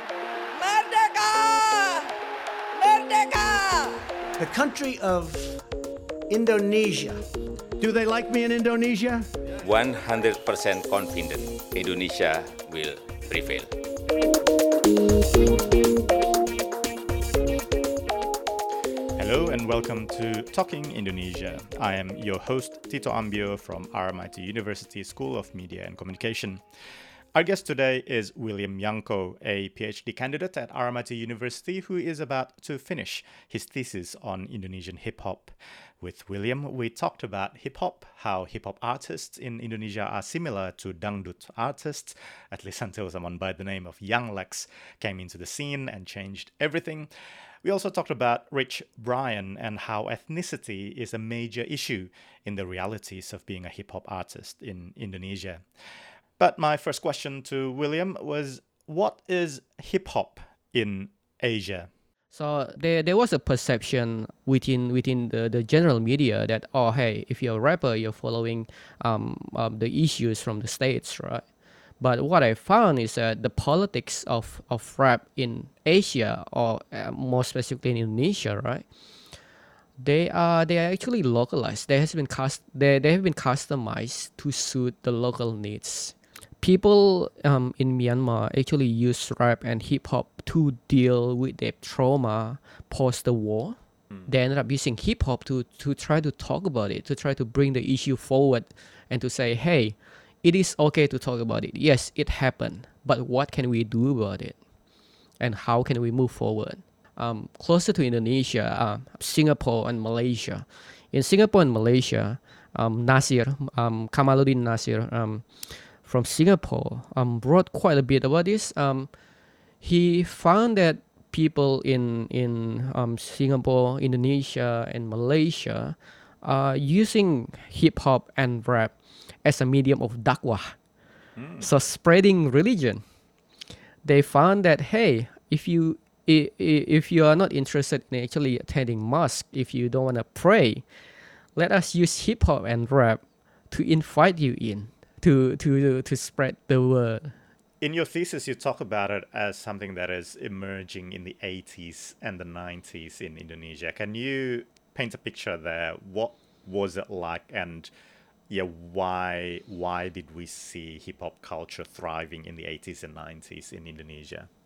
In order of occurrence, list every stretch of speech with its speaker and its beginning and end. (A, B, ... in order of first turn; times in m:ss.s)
0:00.5-0:02.1 A
0:02.8-0:04.0 A
0:04.4-0:05.6 B
0:06.3-0:07.2 B
0:07.8-0:09.3 B
0:09.6-0:13.7 C
0:19.2-0:26.6 D
0:27.3-0:47.1 D
0:47.6-0:55.6 D
0:56.4-1:01.9 D
1:02.3-1:11.4 E
1:12.0-1:18.8 E
1:20.0-1:44.6 E
1:45.4-1:59.1 E
1:59.8-2:10.8 E
2:11.4-2:11.7 D
2:11.6-2:13.0 E
2:14.0-2:20.8 E
2:21.6-2:27.3 E
2:27.8-2:37.9 D
2:38.5-2:44.5 D